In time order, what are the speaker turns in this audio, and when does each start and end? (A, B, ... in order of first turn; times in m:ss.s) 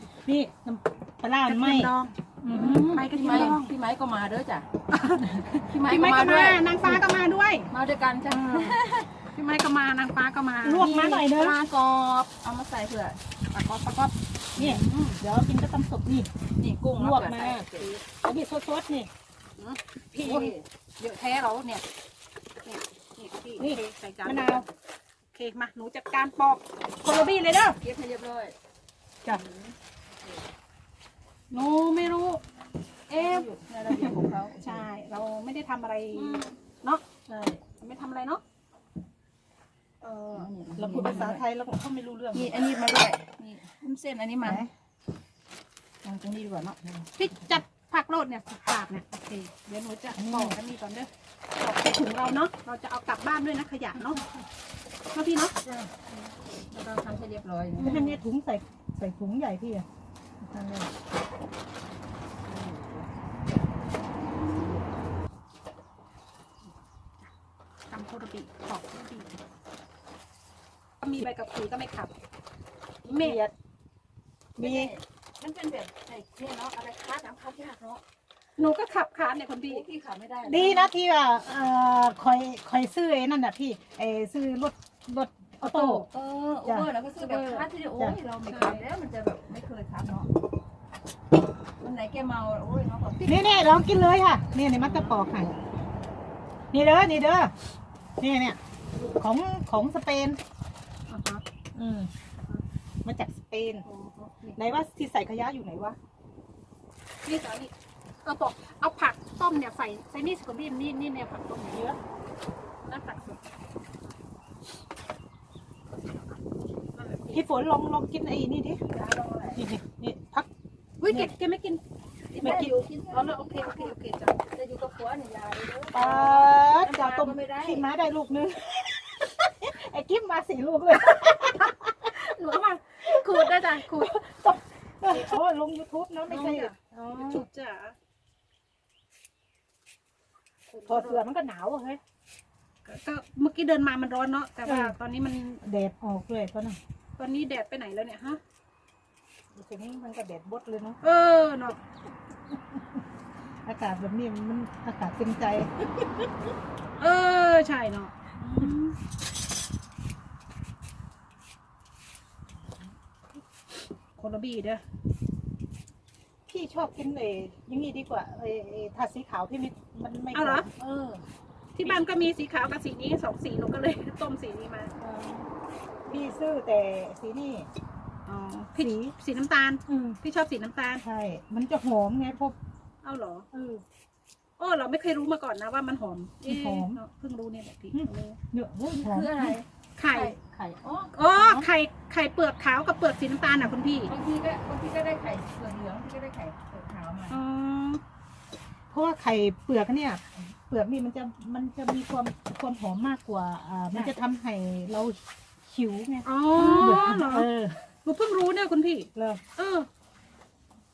0:00.2-0:01.9 A
0:01.5-0:03.7 B
0:02.4-0:02.9 A
0:02.5-0:04.6 C
0:04.9-0:07.7 B
0:05.4-0:07.0 C
0:07.7-0:09.1 C
0:08.3-0:08.7 A
0:09.3-0:11.2 B
0:10.6-0:11.6 A
0:10.7-0:13.2 C
0:13.5-0:15.2 B
0:14.6-0:16.3 A
0:16.6-0:17.9 C
0:17.0-0:19.1 A
0:17.7-0:18.0 B
0:20.1-0:20.6 C
0:20.2-0:20.5 A
0:21.0-0:21.8 B
0:22.6-0:24.6 B
0:23.6-0:24.6 A
0:25.3-0:27.8 B
0:27.8-0:28.5 C
0:29.3-0:29.7 C
0:31.5-0:32.4 B
0:33.1-0:34.9 C
0:33.1-0:33.4 B
0:34.6-0:37.0 B
0:36.1-0:36.5 C
0:37.3-0:37.6 C
0:37.6-0:38.4 B
0:40.0-0:40.5 B
0:40.3-0:41.4 C
0:40.8-0:42.6 A
0:42.3-0:44.6 C
0:44.4-0:44.7 A
0:46.0-0:46.8 C
0:47.2-0:54.2 B
0:50.2-0:50.6 A
0:55.1-0:55.5 B
0:55.6-0:55.9 C
0:56.7-0:57.9 C
0:57.8-0:58.2 B
0:57.8-0:59.8 A
1:00.4-1:00.9 A
1:02.4-1:03.1 C
1:04.4-1:04.9 C
1:07.9-1:09.4 B
1:11.0-1:12.1 B
1:13.0-1:13.4 B
1:13.1-1:13.5 A
1:14.6-1:18.0 C
1:14.6-1:14.9 A
1:18.6-1:19.8 B
1:19.6-1:20.7 C
1:20.4-1:26.0 A
1:25.6-1:26.0 B
1:25.7-1:30.3 C
1:26.6-1:26.9 A
1:27.2-1:27.7 B
1:28.5-1:28.8 B
1:31.8-1:33.7 C
1:33.2-1:35.5 A
1:34.8-1:35.2 B
1:36.7-1:37.5 A
1:38.2-1:40.4 A
1:41.1-1:41.4 B
1:41.7-1:42.1 A
1:43.0-1:43.8 A
1:43.8-1:44.6 B
1:44.6-1:46.0 A
1:47.2-1:47.7 B
1:48.2-1:51.9 B
1:51.7-1:52.0 A
1:52.8-1:53.4 B
1:56.9-1:57.4 B
1:57.3-1:58.8 A
1:58.9-1:59.6 C
1:59.5-2:00.5 A
2:01.0-2:01.8 B
2:02.3-2:07.8 C
2:02.4-2:02.7 A
2:03.1-2:04.4 B
2:05.9-2:12.1 A
2:12.0-2:14.1 B
2:13.0-2:17.4 A
2:16.3-2:18.0 B
2:20.7-2:21.2 B
2:20.9-2:22.0 A
2:22.8-2:25.6 B
2:24.6-2:24.9 A
2:25.6-2:26.8 A
2:27.2-2:28.4 B
2:29.5-2:31.0 A
2:31.0-2:31.8 B
2:33.6-2:35.7 A
2:37.0-2:38.9 B
2:44.2-2:44.8 B
2:46.5-2:51.2 A
2:50.3-2:50.7 B
2:51.8-2:54.9 B
2:55.0-2:55.4 A
2:56.1-2:57.7 A
2:58.3-3:01.0 B
2:58.8-2:59.1 A
2:59.9-3:00.2 A
3:01.0-3:02.6 A
3:03.0-3:03.4 B
3:03.5-3:03.8 A
3:04.6-3:08.4 B
3:06.4-3:07.0 A
3:07.9-3:09.6 A
3:08.9-3:11.1 C
3:10.0-3:10.3 B
3:11.1-3:14.1 B
3:11.3-3:11.7 A
3:14.1-3:17.4 C
3:17.3-3:18.0 B
3:18.9-3:27.8 A
3:26.2-3:27.5 B
3:28.0-3:29.9 B
3:29.1-3:29.4 A